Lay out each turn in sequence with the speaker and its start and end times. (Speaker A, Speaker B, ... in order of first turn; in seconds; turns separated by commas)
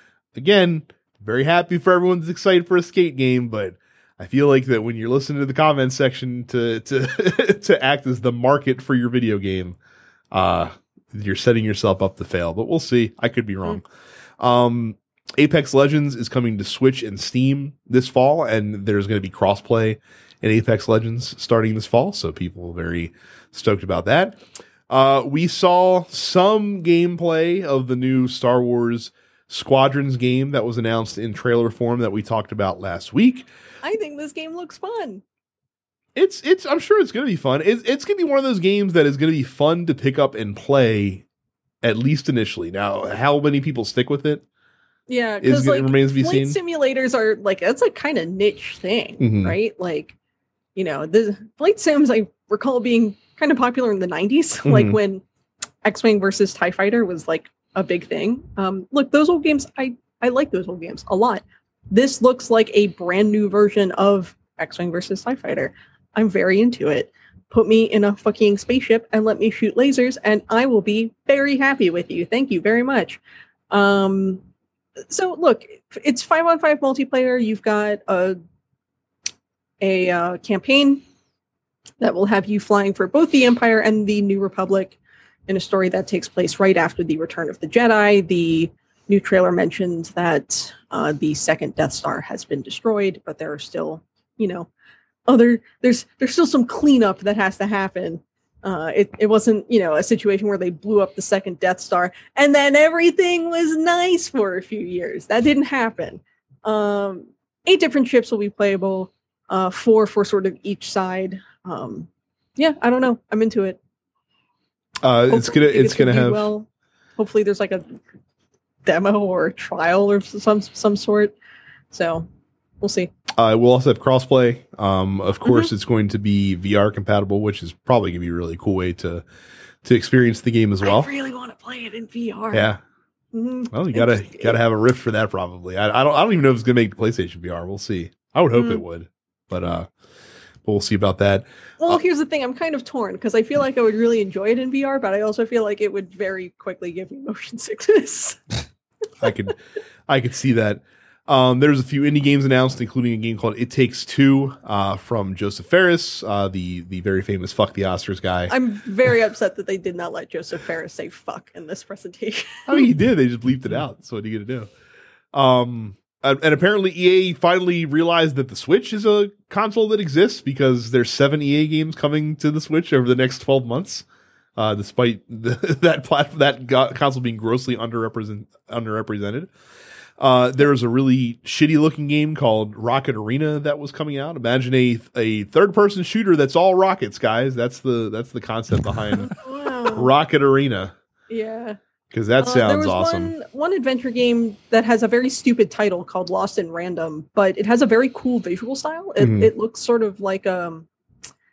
Speaker A: 0.3-9.8, Speaker A: 10.3-13.8, Speaker A: 14.4-24.4, Speaker A: 24.9-33.5, Speaker B: 33.8-35.2, Speaker A: 36.1-41.2, Speaker A: 41.8-44.4, Speaker B: 45.1-50.1, Speaker A: 45.4-46.6, Speaker A: 49.2-49.6, Speaker B: 50.8-55.2, Speaker A: 54.6-55.0, Speaker B: 55.8-73.2, Speaker B: 73.7-74.4, Speaker B: 75.1-78.4, Speaker B: 79.8-81.0, Speaker B: 82.0-85.0, Speaker B: 85.5-94.7, Speaker B: 95.3-113.8, Speaker A: 115.0-116.5, Speaker B: 115.3-116.7, Speaker B: 117.2-118.0, Speaker B: 118.9-121.3, Speaker B: 121.9-122.3, Speaker B: 122.8-123.1, Speaker A: 123.4-129.2, Speaker B: 125.4-125.7, Speaker A: 129.8-131.1, Speaker B: 130.8-132.7, Speaker A: 132.5-132.8, Speaker B: 133.3-134.6, Speaker A: 133.7-139.9, Speaker B: 138.5-138.8, Speaker A: 140.6-142.0, Speaker B: 141.8-148.6, Speaker A: 149.2-149.6, Speaker A: 150.1-158.5, Speaker B: 158.5-162.9, Speaker A: 162.7-164.7, Speaker A: 165.3-174.1, Speaker A: 174.6-179.5, Speaker A: 180.2-190.9, Speaker B: 189.2-190.1, Speaker B: 191.3-191.8, Speaker A: 192.1-193.3, Speaker B: 192.4-200.9, Speaker A: 199.2-199.5